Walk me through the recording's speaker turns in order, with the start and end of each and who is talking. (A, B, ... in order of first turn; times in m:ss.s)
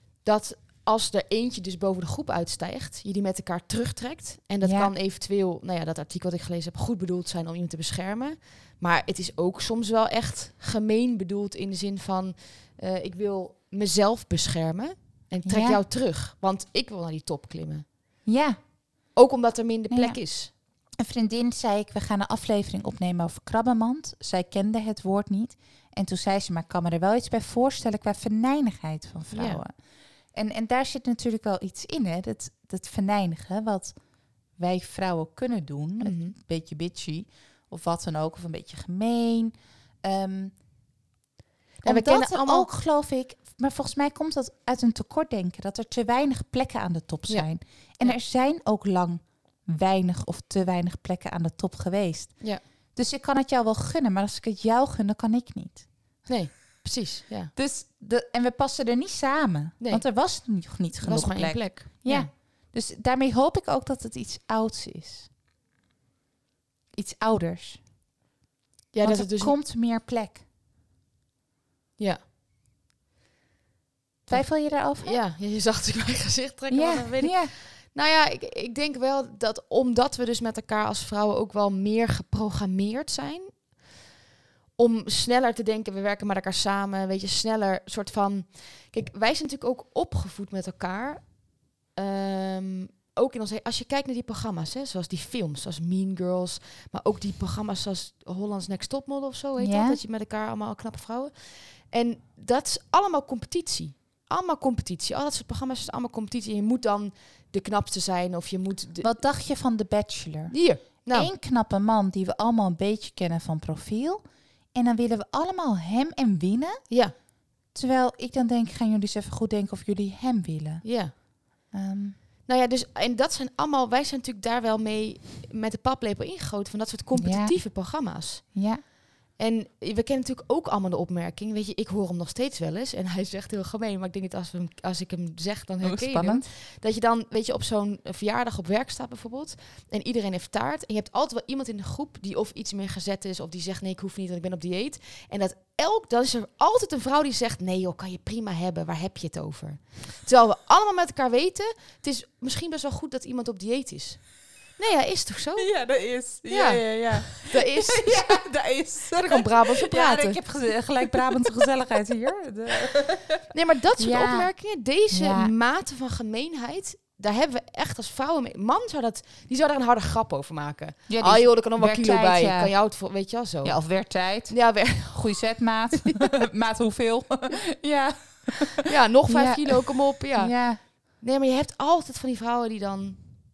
0:00.2-0:17.8 A
0:04.6-0:04.9 B
0:15.4-0:15.8 B
0:18.2-0:18.6 B
0:19.1-0:20.5 A
0:19.9-0:20.2 B
0:21.0-0:29.7 B
0:29.3-0:29.6 A
0:30.3-0:34.0 B
0:34.6-0:40.5 B
0:36.0-0:36.3 A
0:41.8-0:42.7 A
0:41.8-0:55.9 B
0:56.2-0:57.5 A
0:57.5-1:05.3 B
1:01.0-1:02.3 A
1:06.9-1:07.8 B
1:08.9-1:09.6 A
1:09.0-1:10.4 B
1:12.0-1:12.2 A
1:14.3-1:15.2 B
1:14.3-1:23.8 A
1:16.7-1:17.5 B
1:24.8-1:31.4 A
1:31.9-1:49.1 A
1:39.6-1:40.0 B
1:49.0-1:50.6 B
1:50.5-1:51.3 A
1:51.1-1:56.8 B
1:57.7-2:00.8 B
2:00.8-2:01.1 A
2:01.7-2:02.2 B
2:02.4-2:08.5 A
2:07.2-2:07.6 B
2:08.5-2:08.8 B
2:09.4-2:35.7 A
2:15.8-2:16.4 B
2:35.6-2:43.4 B
2:36.5-2:38.5 A
2:39.1-2:40.4 A
2:43.5-2:53.8 A
2:44.0-2:44.5 B
2:45.1-2:45.5 B
2:51.1-2:52.7 B
2:53.6-3:00.8 B
2:54.5-2:55.4 A
2:58.8-3:03.2 A